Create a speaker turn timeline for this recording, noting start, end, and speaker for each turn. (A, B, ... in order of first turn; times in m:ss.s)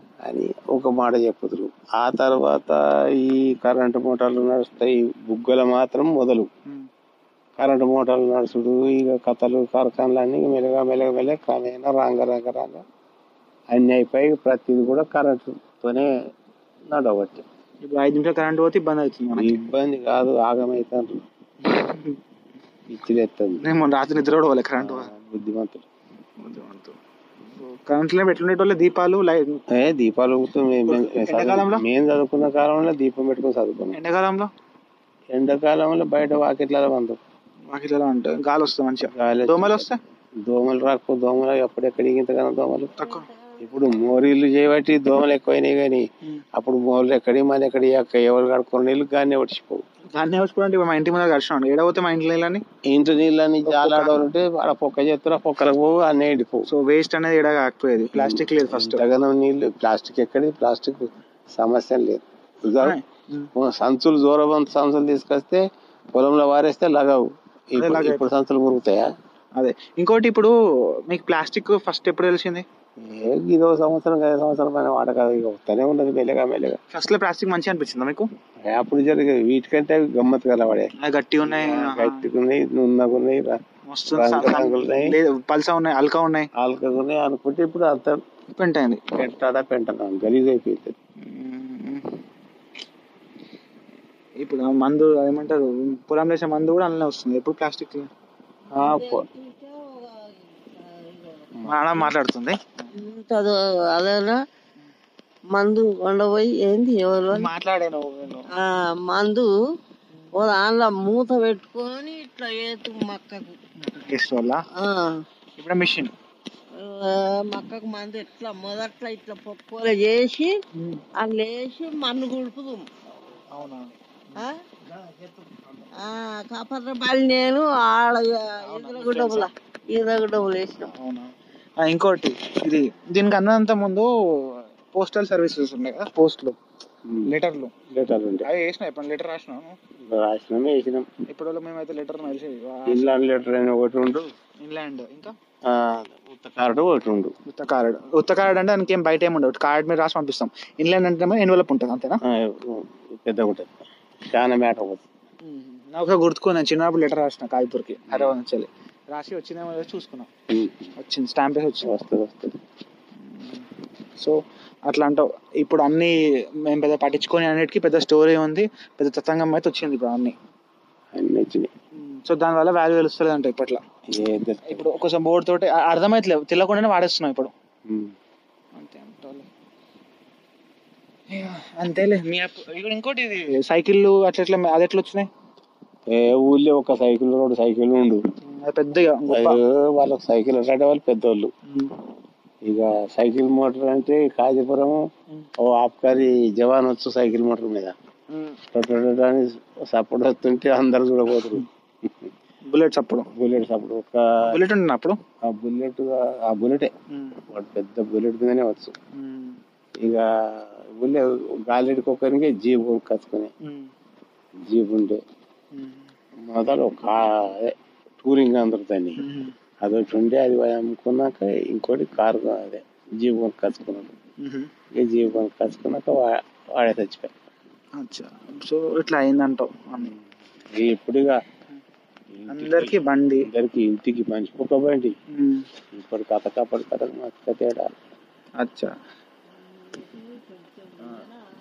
0:00.2-0:06.5 A
0:07.6-0:12.8 A
0:13.7-0:16.1 A
0:16.9-0:17.4 A
0:17.8-0:19.6 B
0:19.4-0:21.2 A
0:21.6-0:22.2 B
0:22.9-0:23.6 A
0:23.6-0:25.1 B
0:24.8-0:25.9 A
0:26.4-0:27.0 B
0:27.6-0:29.6 B
0:29.7-0:34.0 A
0:30.9-0:31.8 B
0:33.9-0:34.5 B
0:35.3-0:37.2 A
0:37.7-0:40.0 B
0:39.1-0:39.9 A
0:40.4-0:43.0 A
0:43.0-0:43.3 B
0:43.0-0:43.8 C
0:43.6-0:49.8 A
0:50.1-0:52.6 B
0:52.9-0:56.7 A
0:53.6-0:54.2 B
0:56.7-0:59.0 B
0:58.2-1:03.0 A
1:02.8-1:03.5 B
1:03.6-1:09.1 A
1:07.8-1:08.3 B
1:09.6-1:10.5 B
1:11.0-1:12.6 B
1:13.0-1:16.8 A
1:16.9-1:18.3 B
1:18.7-1:20.9 A
1:21.0-1:22.2 B
1:21.4-1:23.6 A
1:23.9-1:26.5 B
1:24.2-1:25.2 A
1:26.6-1:28.2 A
1:28.6-1:29.0 B
1:29.2-1:31.0 A
1:31.2-1:32.1 B
1:34.4-1:38.1 B
1:38.8-1:39.3 A
1:38.8-1:41.5 C
1:41.6-1:43.0 B
1:42.9-1:44.4 C
1:45.5-1:47.5 C
1:47.3-1:48.5 B
1:48.5-1:49.5 C
1:50.3-1:53.6 C
1:53.8-1:54.6 B
1:54.7-1:55.2 C
1:55.6-1:56.1 B
1:56.7-2:00.6 C
2:00.8-2:01.0 B
2:01.2-2:02.9 C
2:03.4-2:04.5 B
2:04.4-2:04.6 C
2:06.0-2:10.9 C
2:08.6-2:09.5 B
2:10.9-2:16.6 B
2:17.3-2:17.7 B
2:17.9-2:18.5 A
2:18.4-2:19.8 B
2:20.1-2:21.1 A
2:21.3-2:23.2 B
2:22.9-2:24.3 A
2:24.6-2:25.3 B
2:25.7-2:27.3 A
2:27.5-2:32.2 B
2:32.3-2:33.8 A
2:34.3-2:35.0 A
2:35.4-2:40.3 B
2:40.5-2:41.0 A
2:41.0-2:41.9 B
2:41.8-2:42.6 A
2:43.2-2:50.4 B
2:51.2-2:51.7 A
2:52.0-2:53.8 B
2:54.1-2:54.9 A
2:54.6-2:57.5 B
2:57.9-2:58.1 A
2:58.8-2:59.5 B
3:01.3-3:05.3 B
3:06.1-3:08.2 A
3:08.4-3:09.6 B
3:09.3-3:11.5 A
3:11.7-3:12.0 B
3:12.6-3:15.0 A
3:15.6-3:18.0 A
3:18.3-3:18.6 B
3:18.7-3:22.3 A
3:22.7-3:23.3 B
3:23.4-3:24.2 A
3:24.5-3:25.2 B
3:25.4-3:26.9 A
3:27.1-3:27.4 B
3:27.5-3:28.9 A
3:29.2-3:29.6 B
3:30.0-3:33.5 A
3:34.7-3:35.2 A
3:35.7-3:36.1 B
3:36.5-3:39.2 A
3:39.2-3:39.5 B
3:39.8-3:44.1 A
3:44.4-3:44.7 B
3:45.0-3:47.3 A
3:48.0-3:50.1 B
3:50.7-3:51.4 A
3:52.4-3:55.2 A
3:52.5-3:53.5 B
3:55.3-3:55.7 B
3:55.9-3:57.9 A
3:58.6-3:58.9 B
3:59.6-4:01.4 C